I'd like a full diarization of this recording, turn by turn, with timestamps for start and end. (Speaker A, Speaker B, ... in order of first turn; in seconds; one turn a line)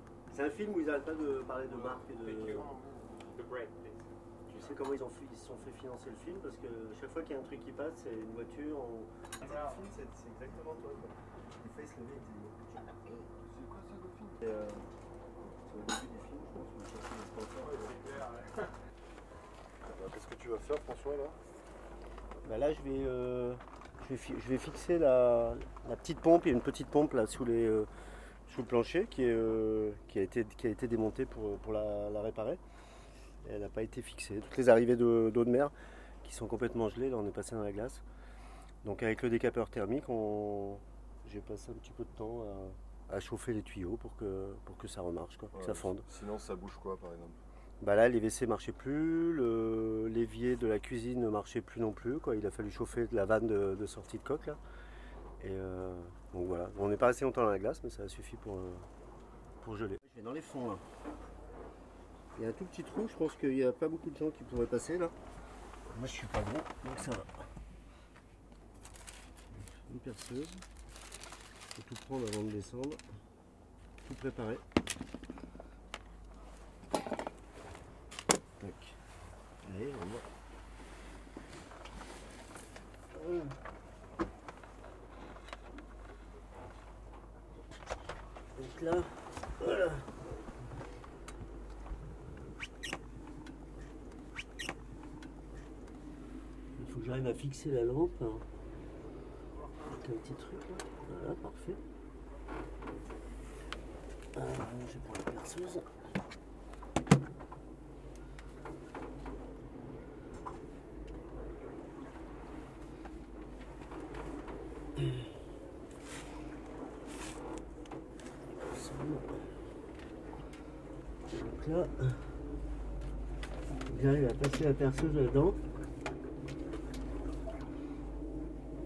Speaker A: 0.3-2.7
Speaker B: 2.1-2.7
Speaker C: 2.8-3.3
Speaker B: 3.3-4.7
Speaker A: 4.5-13.2
Speaker B: 9.4-9.8
Speaker C: 13.4-14.4
Speaker A: 14.4-14.8
Speaker A: 15.6-18.1
Speaker B: 17.6-18.7
Speaker C: 19.8-21.4
Speaker A: 22.4-27.9
Speaker A: 28.5-32.6
Speaker A: 33.4-38.0
Speaker A: 38.8-46.0
Speaker C: 45.5-47.4
Speaker A: 47.8-54.6
Speaker A: 55.4-58.9
Speaker A: 59.6-60.8
Speaker A: 62.4-65.1
Speaker A: 65.9-67.3
Speaker A: 69.6-70.6
Speaker A: 71.8-73.0
Speaker A: 74.0-74.6
Speaker A: 78.6-79.0
Speaker A: 79.6-80.2
Speaker A: 83.1-83.5
Speaker A: 88.5-90.2
Speaker A: 96.8-98.4
Speaker A: 99.8-101.8
Speaker A: 104.3-105.9
Speaker A: 118.6-119.5
Speaker A: 121.3-122.2
Speaker A: 123.8-125.6